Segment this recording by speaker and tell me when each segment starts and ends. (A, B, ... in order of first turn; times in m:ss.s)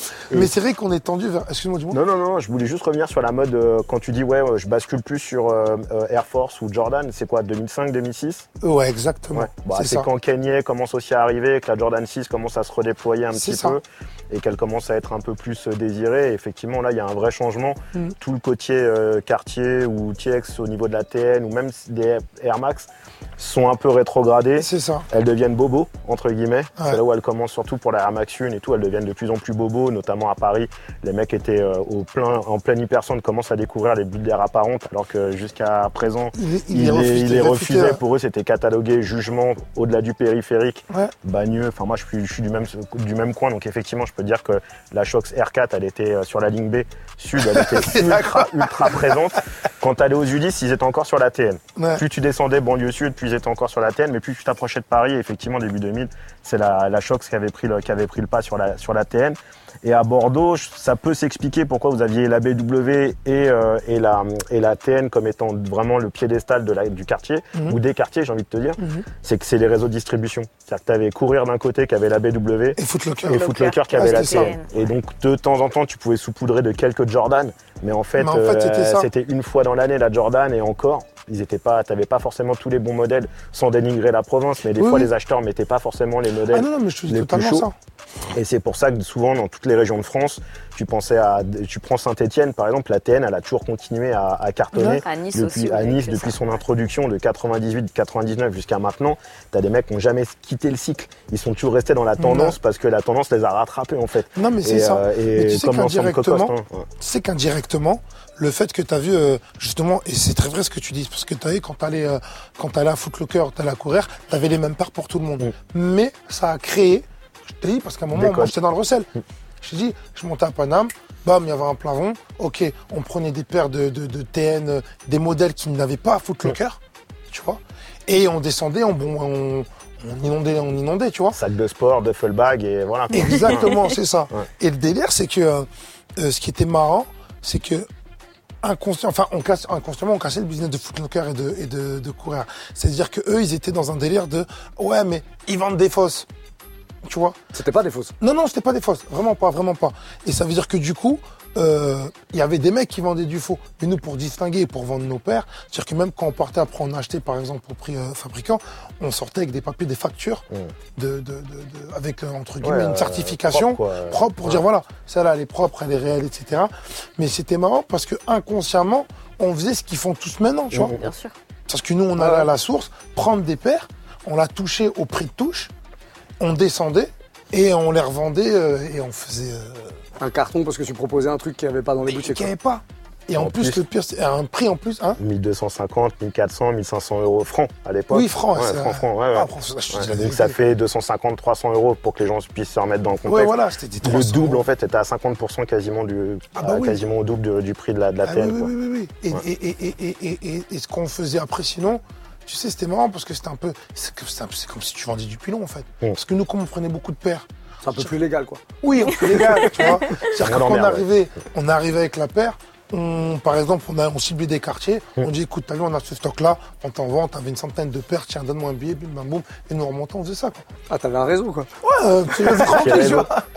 0:00.3-0:02.0 A
0:01.9-0:08.5 B
0:08.6-0:10.1 A
0:09.3-1:27.7 B
0:13.3-0:13.8 A
0:24.6-0:25.1 A
0:36.3-0:38.0 A
0:47.4-0:49.2 A
0:51.8-0:52.0 A
1:07.5-1:07.8 A
1:08.8-1:09.0 A
1:12.8-1:14.5 A
1:13.3-1:14.7 C
1:18.2-1:19.1 A
1:24.8-1:25.1 A
1:26.5-1:27.7 A
1:28.3-1:46.9 B
1:34.7-1:35.0 A
1:35.0-1:36.4 C
1:42.2-1:42.6 A
1:44.3-1:59.1 A
1:58.1-1:58.5 B
1:59.6-2:11.4 A
2:11.3-2:13.7 B
2:13.1-2:17.9 A
2:18.6-2:26.3 A
2:27.0-2:27.4 A
2:27.5-2:28.1 D
2:28.2-2:40.4 A
2:40.9-2:51.0 A
2:42.6-2:44.6 B
2:50.7-2:51.1 B
2:50.9-2:51.3 C
2:51.7-2:55.7 A
2:52.2-2:52.5 D
2:56.4-3:00.0 A
3:00.2-3:02.5 D
3:02.1-3:05.2 A
3:03.4-3:03.8 B
3:05.2-3:18.7 B
3:08.1-3:10.6 A
3:13.3-3:14.6 A
3:16.6-3:17.0 A
3:18.2-3:28.1 A
3:27.8-3:28.6 D
3:28.8-3:40.6 A
3:30.2-3:31.0 B
3:40.9-3:41.7 D
3:41.8-3:43.4 A
3:42.6-3:43.2 D
3:42.8-3:43.3 B